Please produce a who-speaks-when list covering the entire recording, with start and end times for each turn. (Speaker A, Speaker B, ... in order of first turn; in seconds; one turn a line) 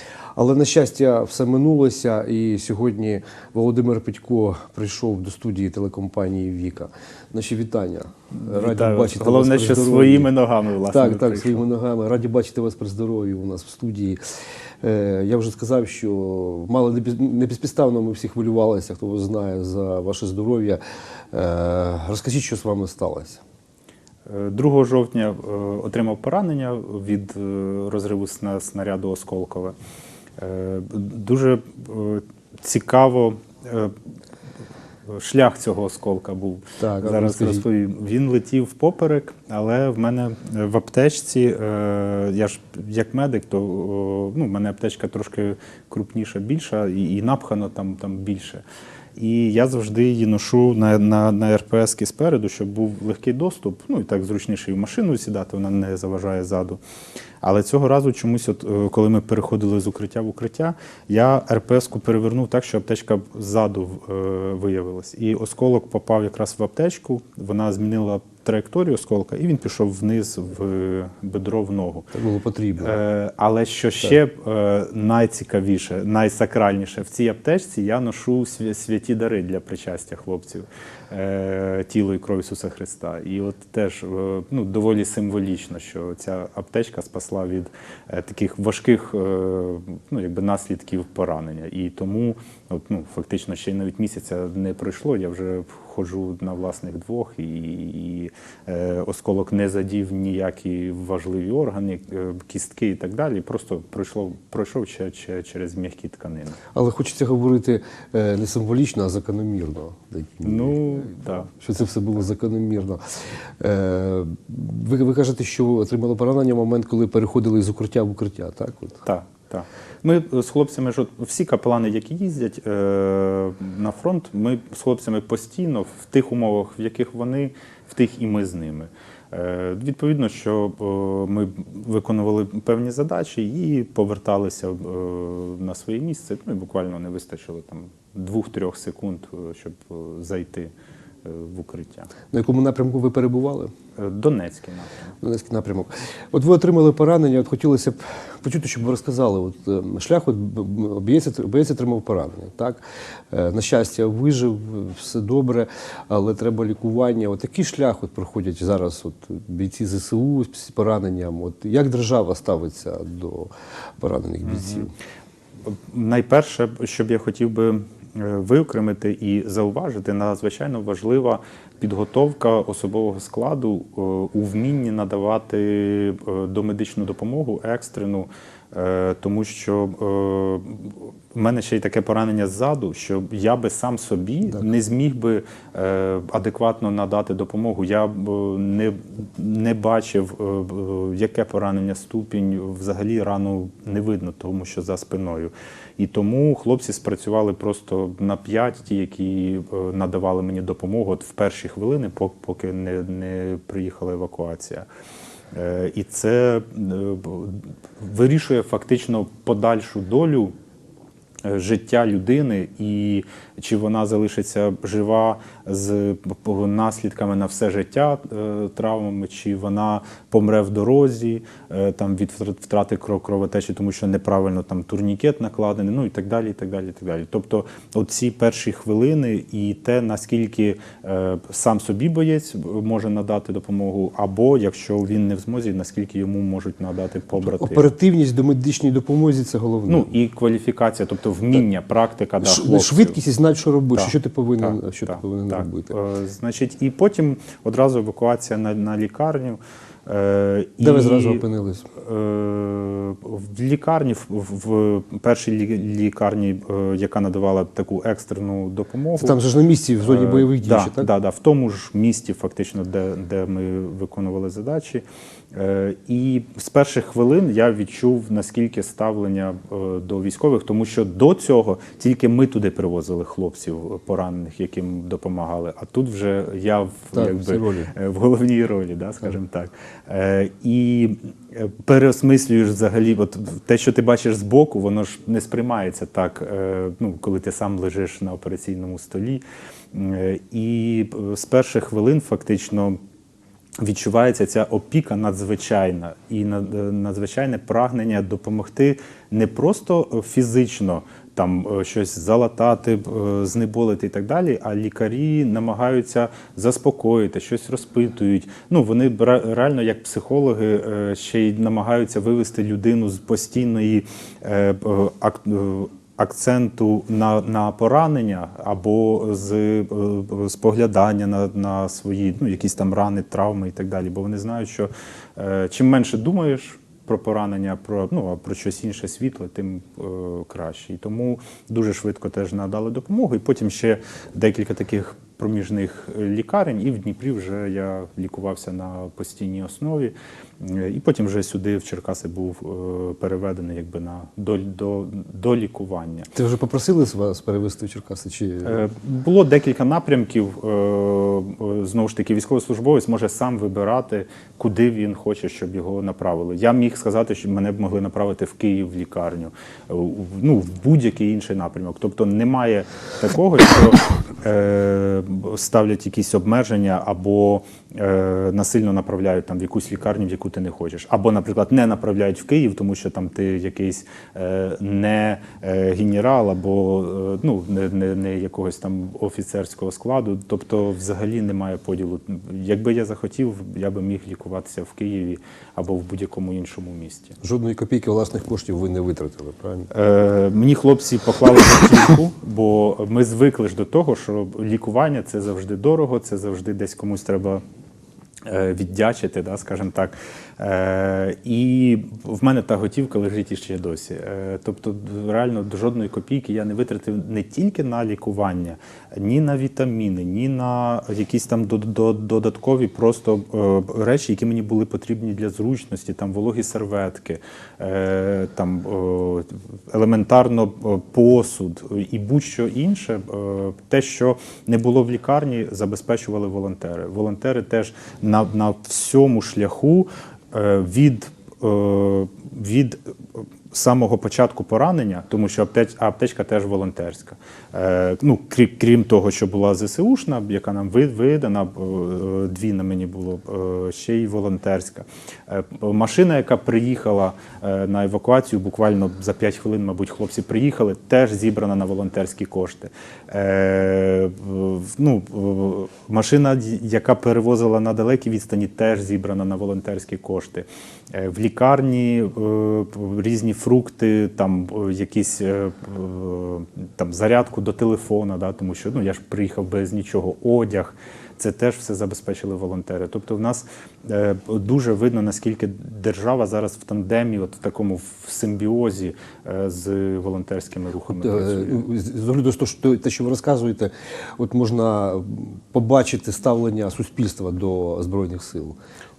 Speaker A: 0.4-10.3
Speaker B: 8.4-11.6
Speaker A: 10.9-14.2
Speaker A: 14.8-20.8
Speaker A: 21.3-23.4
Speaker B: 24.3-29.8
Speaker B: 30.4-34.0
Speaker B: 35.1-48.6
Speaker A: 36.8-37.6
Speaker B: 49.2-56.8
Speaker B: 57.4-72.1
Speaker A: 72.1-73.0
Speaker B: 72.8-106.6
Speaker A: 106.7-113.0
Speaker B: 110.4-111.5
Speaker A: 113.6-119.0
Speaker B: 119.0-140.7
Speaker B: 141.2-142.1
Speaker A: 142.3-143.7
Speaker B: 144.0-145.1
Speaker A: 145.2-164.9
Speaker B: 164.4-164.9
Speaker B: 165.7-204.9
Speaker B: 205.5-210.5
Speaker B: 211.4-237.9
Speaker A: 237.4-240.1
Speaker B: 239.9-243.2
Speaker A: 242.4-245.9
Speaker B: 243.9-251.4
Speaker A: 250.8-251.9
Speaker B: 252.0-259.4
Speaker A: 259.2-261.1
Speaker B: 260.0-293.0
Speaker A: 277.1-277.9
Speaker B: 293.8-346.3
Speaker A: 346.3-348.9
Speaker B: 348.6-387.4
Speaker A: 387.4-389.9
Speaker B: 389.9-397.6
Speaker B: 398.4-481.8
Speaker A: 481.1-488.8